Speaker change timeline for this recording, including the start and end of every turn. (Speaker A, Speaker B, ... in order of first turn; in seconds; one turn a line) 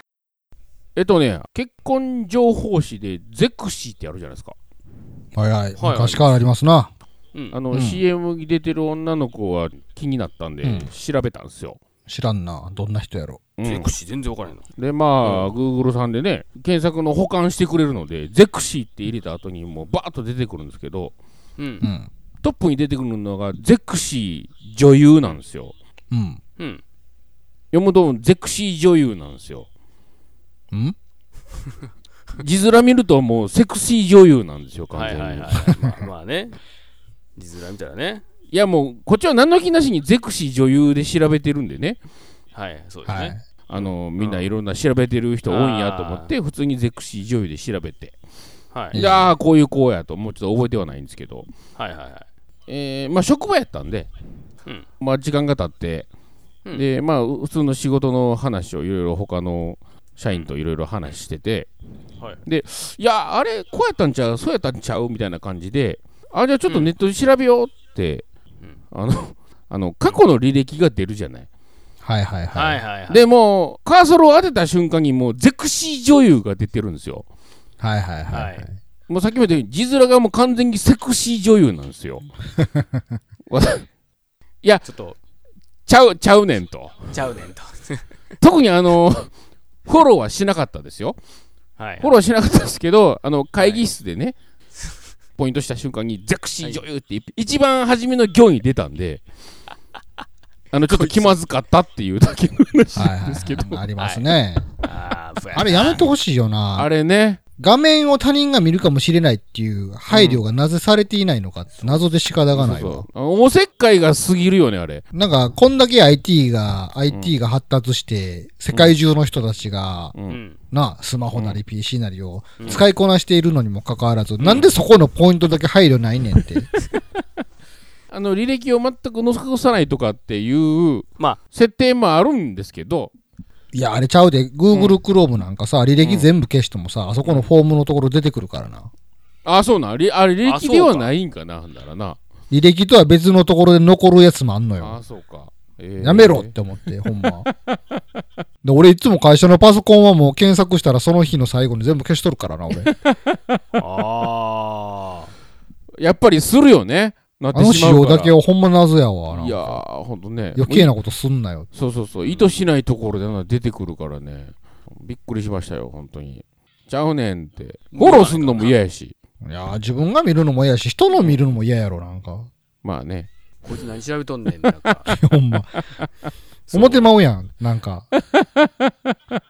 Speaker A: 0.9-4.5
Speaker B: 5.4-6.9
Speaker C: 5.8-6.5
Speaker A: 7.5-11.8
Speaker B: 7.7-8.0
Speaker B: 10.6-10.9
Speaker B: 12.1-13.4
Speaker A: 13.6-13.9
Speaker C: 13.6-14.7
Speaker A: 14.8-21.1
Speaker C: 15.2-15.5
Speaker C: 21.6-21.9
Speaker B: 21.8-22.1
Speaker A: 22.4-25.8
Speaker B: 26.1-26.4
Speaker A: 27.7-29.7
Speaker A: 32.4-35.7
Speaker C: 34.9-36.6
Speaker C: 37.4-38.2
Speaker A: 38.5-42.0
Speaker C: 42.5-44.5
Speaker B: 43.1-43.4
Speaker A: 43.7-48.1
Speaker C: 45.5-46.3
Speaker C: 48.7-49.0
Speaker B: 48.9-49.3
Speaker A: 48.9-51.5
Speaker C: 51.8-52.2
Speaker A: 52.7-54.1
Speaker A: 55.0-56.1
Speaker A: 56.7-61.7
Speaker A: 62.5-68.3
Speaker C: 66.7-66.9
Speaker A: 68.9-71.5
Speaker B: 72.0-72.8
Speaker C: 72.5-73.3
Speaker A: 73.1-77.3
Speaker B: 77.8-78.7
Speaker C: 78.3-78.7
Speaker A: 79.1-82.3
Speaker A: 83.5-83.9
Speaker C: 84.8-85.2
Speaker A: 85.9-87.1
Speaker C: 87.1-88.0
Speaker A: 88.4-89.3
Speaker A: 89.9-91.2
Speaker C: 91.8-92.1
Speaker A: 92.0-94.4
Speaker C: 93.6-93.9
Speaker A: 95.4-99.2
Speaker A: 100.7-103.8
Speaker C: 100.9-101.4
Speaker B: 102.9-104.7
Speaker C: 104.0-106.1
Speaker B: 105.5-106.9
Speaker A: 106.8-107.4
Speaker B: 107.6-113.1
Speaker A: 110.1-110.4
Speaker A: 112.5-115.0
Speaker B: 115.1-120.2
Speaker A: 120.1-120.4
Speaker C: 120.3-120.6
Speaker B: 120.7-126.7
Speaker A: 121.3-121.6
Speaker C: 122.6-122.9
Speaker C: 124.4-124.7
Speaker A: 128.1-133.1
Speaker B: 133.7-138.9
Speaker A: 136.0-136.3
Speaker A: 139.4-142.2
Speaker C: 140.4-141.1
Speaker B: 142.5-145.0
Speaker A: 144.8-146.5
Speaker B: 146.0-147.5
Speaker A: 147.3-147.8
Speaker B: 148.6-152.9
Speaker A: 152.8-153.6
Speaker C: 153.8-155.3
Speaker A: 156.0-158.3
Speaker B: 157.5-159.8
Speaker A: 159.3-160.9
Speaker B: 160.6-161.7
Speaker A: 161.7-169.1
Speaker C: 167.9-168.8
Speaker B: 169.4-172.5
Speaker A: 172.8-173.3
Speaker C: 173.6-175.1
Speaker B: 175.1-175.8
Speaker A: 175.8-176.1
Speaker C: 176.7-177.1
Speaker B: 176.7-178.1
Speaker A: 178.2-179.3